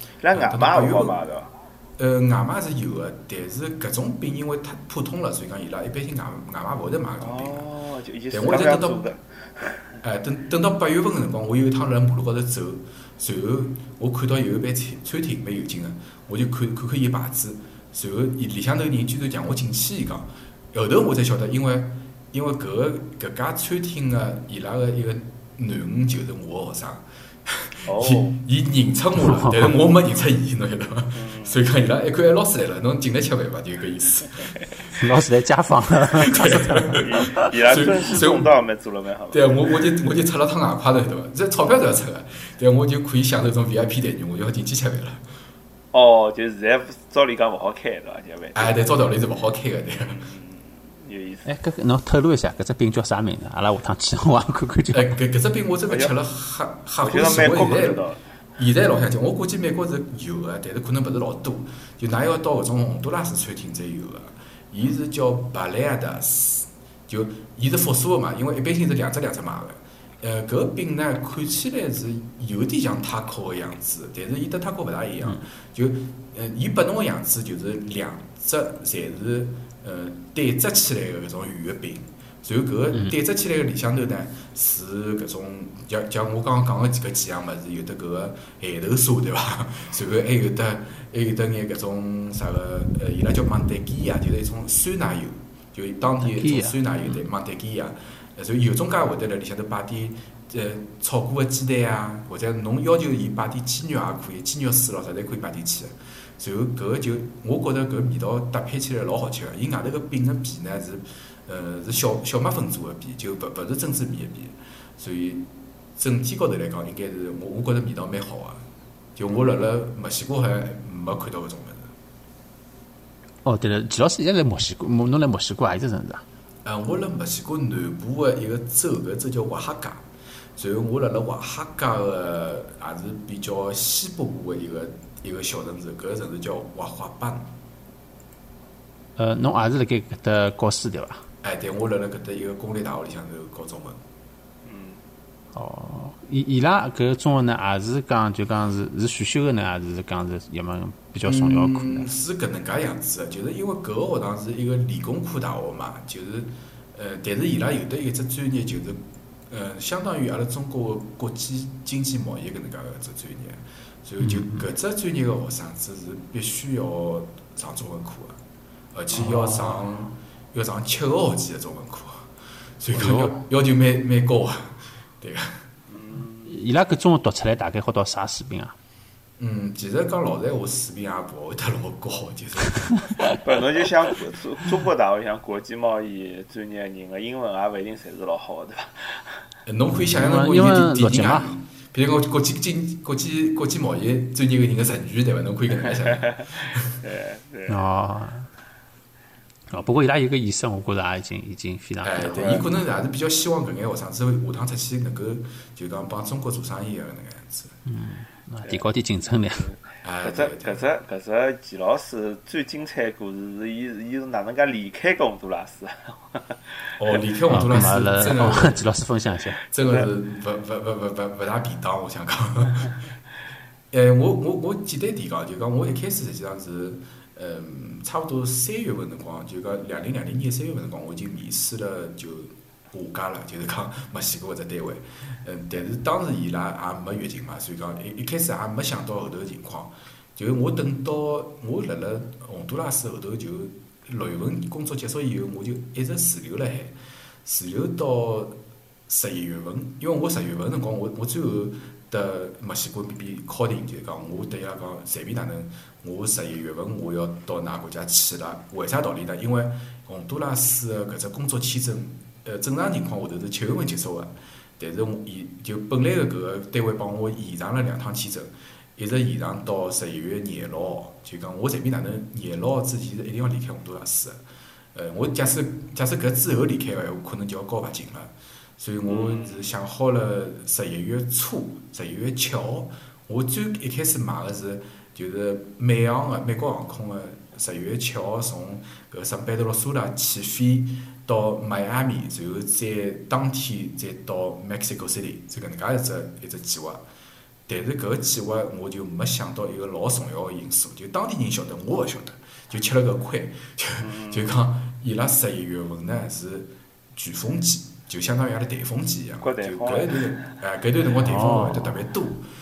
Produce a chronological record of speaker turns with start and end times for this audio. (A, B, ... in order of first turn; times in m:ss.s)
0:00.2-0:01.5 A
0:00.3-0:01.2 B
0:02.0-0:07.7 B
0:07.2-0:10.0 A
0:08.3-0:09.0 B
0:10.0-0:34.6 B
0:27.9-0:28.4 A
0:29.3-0:29.7 C
0:31.1-0:31.6 A
0:34.9-0:37.5 C
0:36.1-0:38.5 B
0:37.0-0:39.8 A
0:39.3-0:45.2 B
0:45.9-0:48.8 A
0:48.6-0:50.2 B
0:50.1-0:51.5 A
0:51.5-0:55.2 C
0:54.9-0:58.0 B
0:57.0-0:58.2 A
0:58.6-1:58.6 B
1:36.2-1:37.2 C
1:59.2-2:01.9 B
2:03.4-2:06.2 C
2:06.6-2:10.0 B
2:10.6-2:17.5 B
2:19.2-2:21.2 C
2:21.4-2:24.0 B
2:24.6-2:25.0 A
2:25.5-2:32.1 C
2:31.2-2:48.4 B
2:44.2-2:44.7 C
2:48.9-2:55.6 B
2:49.1-2:49.8 C
2:52.9-2:53.4 C
2:55.9-2:56.5 A
2:56.4-2:58.7 C
2:59.4-3:03.0 B
3:03.4-3:09.4 A
3:09.7-3:16.9 B
3:10.0-3:11.6 C
3:17.0-3:17.8 A
3:17.7-3:18.5 C
3:19.7-3:22.7 C
3:22.0-3:27.8 B
3:27.9-3:29.7 C
3:29.6-3:36.6 A
3:30.0-3:30.9 B
3:37.0-3:38.9 B
3:37.5-3:39.6 C
3:39.7-3:42.9 B
3:39.7-3:40.1 A
3:43.9-4:08.6 B
4:09.1-4:34.4 B
4:34.9-4:57.0 B
4:39.1-4:39.6 A
4:57.7-5:12.5 B
5:04.0-5:04.6 A
5:09.4-5:10.5 A
5:11.1-5:11.9 C